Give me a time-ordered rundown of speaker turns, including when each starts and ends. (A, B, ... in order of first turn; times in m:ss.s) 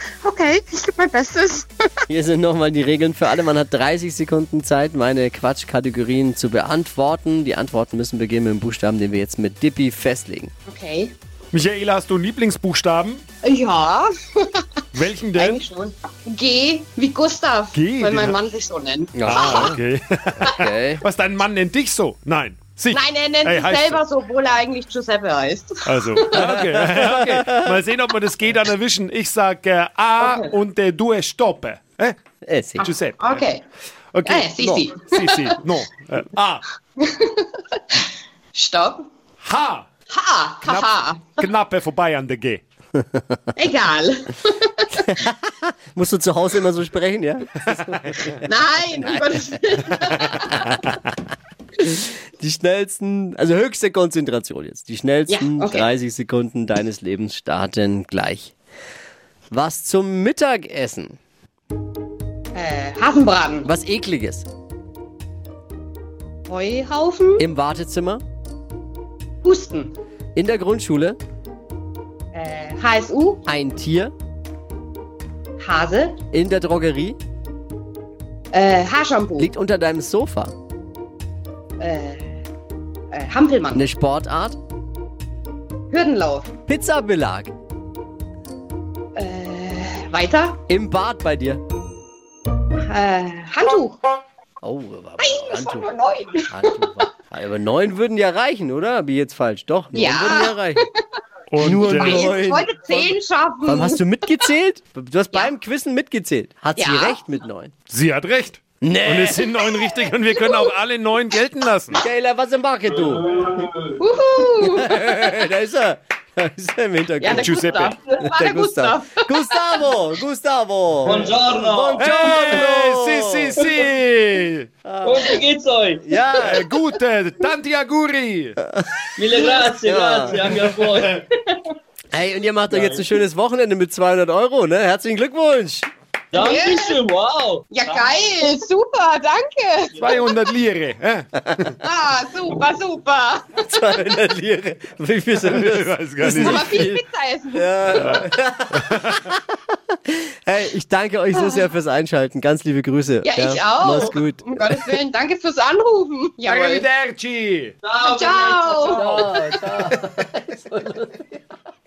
0:00.2-0:01.9 A
0:02.1-0:10.5 B
0:10.7-0:11.2 A
0:11.5-0:13.2 C
0:13.4-0:14.7 A
0:14.9-0:15.6 C
0:15.3-0:19.8 A
0:17.7-0:18.4 C
0:19.2-0:19.8 B
0:19.3-0:24.0 C
0:20.5-0:21.0 B
0:22.9-0:26.5 A
0:25.8-0:32.2 C
0:26.4-0:27.8 B
0:30.2-0:30.5 A
0:32.4-0:32.9 B
0:32.8-0:33.5 C
0:32.8-0:33.6 A
0:34.1-0:36.6 C
0:34.2-0:35.6 A
0:34.5-0:34.8 B
0:37.0-0:39.1 A
0:39.4-0:39.9 C
0:40.1-0:41.4 A
0:40.6-0:42.6 C
0:43.0-0:43.4 B
0:43.6-0:45.2 A
0:45.0-0:48.4 B
0:48.4-0:50.7 A
0:49.0-0:49.6 B
0:50.4-0:51.0 B
0:51.8-0:58.6 B
0:55.3-0:55.9 A
0:59.5-1:01.2 B
1:02.5-1:03.7 A
1:03.6-1:04.5 B
1:06.5-1:07.5 A
1:07.4-1:08.2 B
1:09.4-1:09.9 A
1:10.4-1:11.2 B
1:12.3-1:13.4 A
1:13.5-1:14.1 B
1:15.6-1:16.2 A
1:16.3-1:17.2 B
1:18.5-1:19.5 A
1:19.4-1:20.5 B
1:21.8-1:22.4 A
1:23.1-1:23.9 A
1:23.7-1:24.6 B
1:25.9-1:26.5 A
1:26.7-1:27.5 B
1:29.2-1:30.6 A
1:30.7-1:31.6 B
1:32.8-1:34.0 A
1:34.6-1:40.8 B
1:35.2-1:36.9 A
1:39.9-1:40.8 A
1:41.5-1:42.2 C
1:41.6-1:43.1 B
1:41.8-1:44.1 A
1:43.6-1:47.7 B
1:46.8-1:47.2 A
1:47.9-1:52.0 C
1:48.8-1:49.9 B
1:50.1-1:50.7 A
1:51.9-1:53.3 B
1:53.4-1:54.0 D
1:54.0-1:55.3 A
1:54.6-2:03.7 B
1:57.2-1:59.6 A
1:57.3-1:58.0 C
2:01.0-2:02.6 D
2:02.0-2:04.7 C
2:04.8-2:05.4 B
2:05.0-2:06.0 D
2:06.0-2:06.7 B
2:06.4-2:08.6 C
2:09.2-2:11.3 D
2:09.8-2:10.4 B
2:12.1-2:15.9 B
2:12.7-2:13.0 D
2:16.3-2:18.1 D
2:16.3-2:17.0 A
2:17.7-2:20.0 A
2:20.0-2:21.8 C
2:21.8-2:23.8 A
2:23.6-2:27.0 B
2:25.4-2:26.9 C
2:26.2-2:28.2 A
2:27.5-2:29.4 B
2:28.0-2:29.2 C
2:30.0-2:34.9 B
2:31.3-2:31.7 A
2:33.2-2:36.9 A
2:36.5-2:37.8 C
2:37.8-2:39.3 D
2:38.0-2:39.2 A
2:38.9-2:41.4 B